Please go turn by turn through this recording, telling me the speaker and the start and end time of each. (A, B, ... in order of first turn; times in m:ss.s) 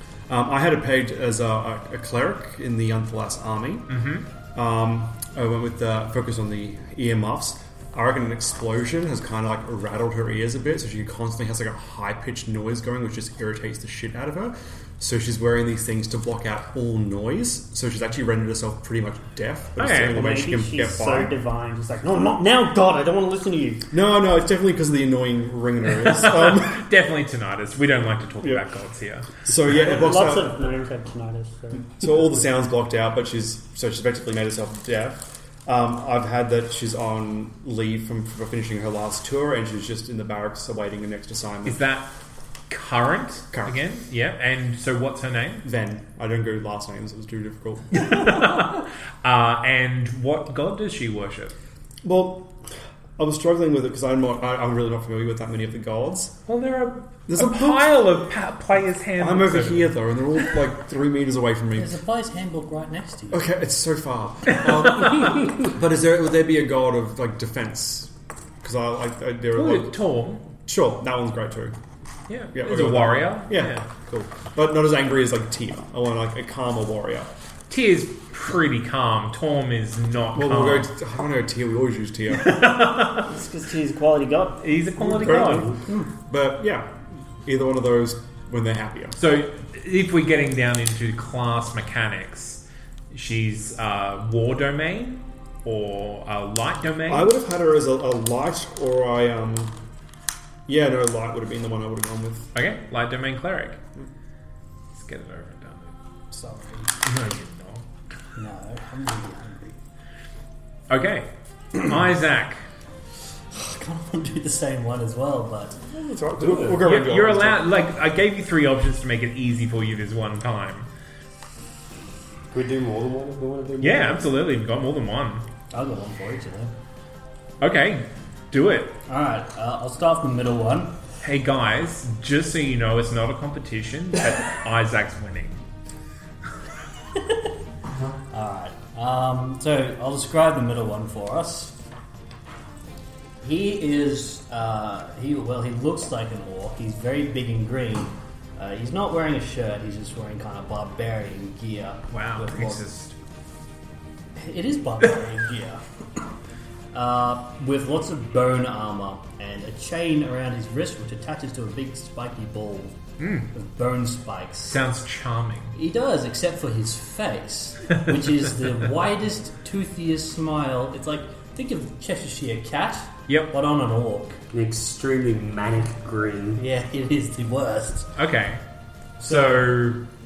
0:00.3-0:04.0 A
0:03.9-0:04.3 B
0:04.5-0:21.4 A
0:19.8-0:20.2 B
0:20.0-0:23.9 C
0:23.9-0:26.9 A
0:25.9-0:29.4 B
0:28.4-0:28.7 A
0:29.4-0:30.6 A
0:29.8-0:32.0 C
0:31.9-0:41.8 A
0:41.6-0:42.1 B
0:42.7-0:45.6 B
0:43.5-0:43.8 A
0:45.6-0:48.6 A
0:47.9-0:51.5 B
0:52.0-0:56.4 A
0:56.5-0:59.9 B
0:57.3-0:58.2 A
0:59.2-1:02.0 A
1:01.8-1:03.5 D
1:03.3-1:10.0 A
1:04.5-1:05.4 B
1:09.5-1:10.4 B
1:10.6-1:11.8 A
1:12.3-1:13.9 B
1:12.5-1:17.3 A
1:17.7-1:20.9 B
1:20.3-1:22.8 A
1:22.4-1:23.3 B
1:23.2-1:24.6 C
1:24.6-1:25.7 B
1:25.1-1:29.2 A
1:25.2-1:26.1 D
1:29.2-1:37.3 B
1:37.1-1:39.8 A
1:40.7-1:42.5 A
1:42.5-1:43.8 B
1:44.9-1:45.9 B
1:46.3-1:46.9 D
1:47.0-1:47.8 B
1:48.4-1:49.8 D
1:50.9-1:52.6 B
1:53.5-1:55.8 D
1:55.9-1:57.7 A
1:56.4-1:56.8 E
1:56.8-2:00.9 B
2:02.5-2:04.3 E
2:03.8-2:05.4 B
2:05.7-2:06.7 D
2:07.6-2:09.0 B
2:09.1-2:11.0 D
2:11.2-2:15.6 B
2:18.3-2:21.8 D
2:23.4-2:32.9 D
2:32.1-2:33.1 B
2:34.4-2:35.8 D
2:36.9-2:43.0 D
2:43.2-2:43.5 B
2:43.5-2:44.8 D
2:44.6-2:45.8 B
2:45.8-2:54.4 D
2:53.3-2:53.5 B
2:54.5-2:56.6 E
2:56.6-2:58.1 D
2:58.2-2:58.6 B
2:59.2-3:00.0 B
2:59.2-2:59.9 D